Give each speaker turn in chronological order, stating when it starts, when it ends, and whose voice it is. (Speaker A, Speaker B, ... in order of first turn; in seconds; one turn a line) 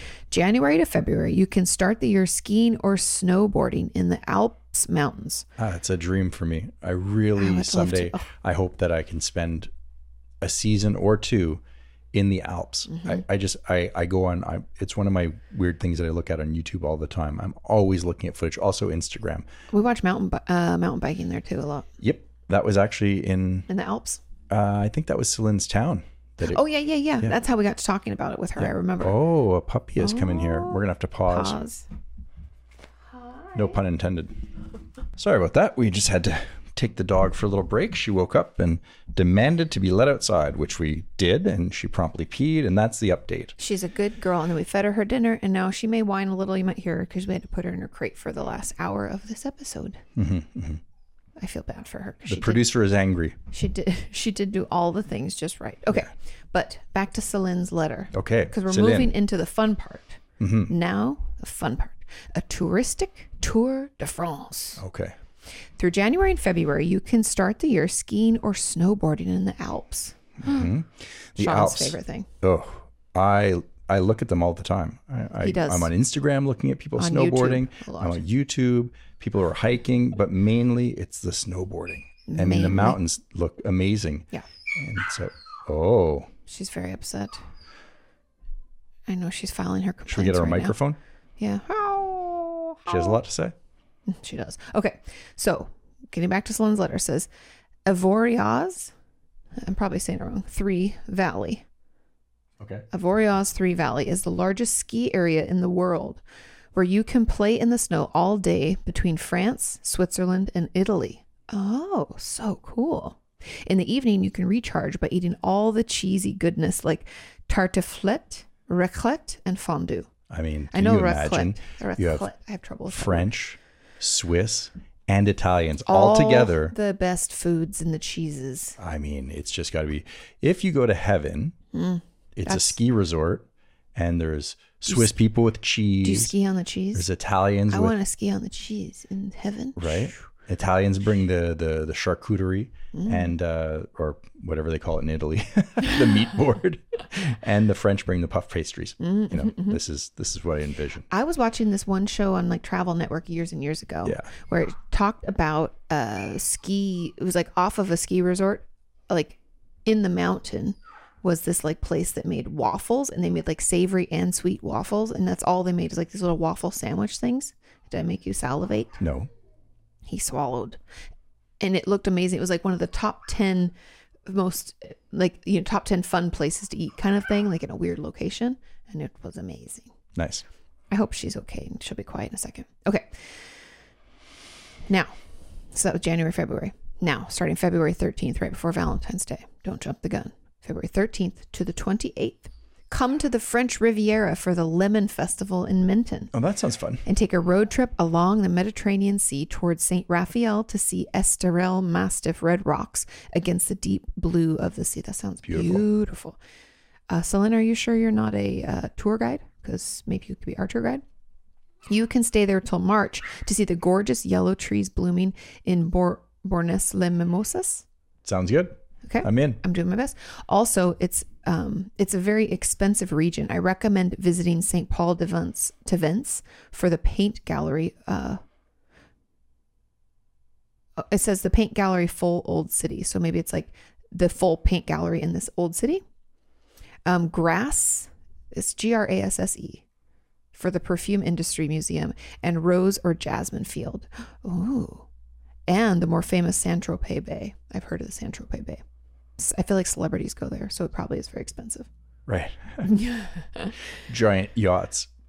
Speaker A: 0.3-5.5
Speaker B: 5.6-9.7
Speaker A: 7.3-8.3
Speaker B: 10.4-11.6
Speaker B: 12.1-19.5
Speaker A: 12.9-13.2
Speaker A: 19.7-21.9
Speaker B: 22.0-23.7
Speaker A: 23.7-24.2
Speaker B: 24.5-26.6
Speaker A: 26.4-29.1
Speaker B: 28.6-31.6
Speaker A: 30.0-31.9
Speaker A: 33.1-33.8
Speaker B: 33.5-34.3
Speaker B: 35.2-43.5
Speaker A: 43.6-50.0
Speaker B: 50.1-50.8
Speaker A: 51.4-52.7
Speaker B: 52.2-53.4
Speaker A: 53.5-64.8
Speaker B: 58.1-59.1
Speaker B: 60.4-60.7
Speaker B: 64.8-65.1
Speaker A: 65.8-70.7
Speaker B: 70.4-86.3
Speaker A: 71.4-72.3
Speaker A: 75.4-75.9
Speaker A: 77.0-78.2
Speaker A: 82.3-83.0
Speaker A: 86.5-87.4
Speaker A: 89.1-90.8
Speaker B: 90.1-91.0
Speaker A: 91.4-93.2
Speaker B: 92.9-93.5
Speaker A: 94.1-97.3
Speaker A: 97.8-98.9
Speaker A: 99.6-101.6
Speaker B: 102.6-102.8
Speaker A: 102.9-106.2
Speaker A: 106.7-120.1
Speaker B: 120.3-122.2
Speaker A: 120.7-123.3
Speaker B: 122.9-126.7
Speaker A: 125.9-128.8
Speaker B: 128.8-131.5
Speaker A: 131.7-132.8
Speaker B: 132.3-136.3
Speaker A: 134.9-135.1
Speaker A: 136.0-137.1
Speaker B: 136.9-137.9
Speaker A: 137.7-140.1
Speaker B: 139.8-151.1
Speaker A: 142.9-143.3
Speaker A: 149.0-149.8
Speaker A: 151.1-169.0
Speaker B: 169.0-169.3
Speaker A: 170.1-170.8
Speaker A: 171.6-173.7
Speaker A: 174.2-179.9
Speaker B: 180.1-180.4
Speaker A: 180.9-183.1
Speaker A: 185.7-196.3
Speaker B: 196.3-197.0
Speaker A: 197.1-206.4
Speaker B: 205.4-205.8
Speaker A: 207.1-211.0
Speaker A: 211.9-217.8
Speaker B: 218.2-219.6
Speaker A: 219.0-228.4
Speaker A: 231.0-236.0
Speaker A: 237.1-239.8
Speaker A: 240.5-245.1
Speaker A: 245.7-248.8
Speaker A: 249.4-251.9
Speaker B: 252.3-252.9
Speaker A: 252.8-253.7
Speaker B: 254.1-255.1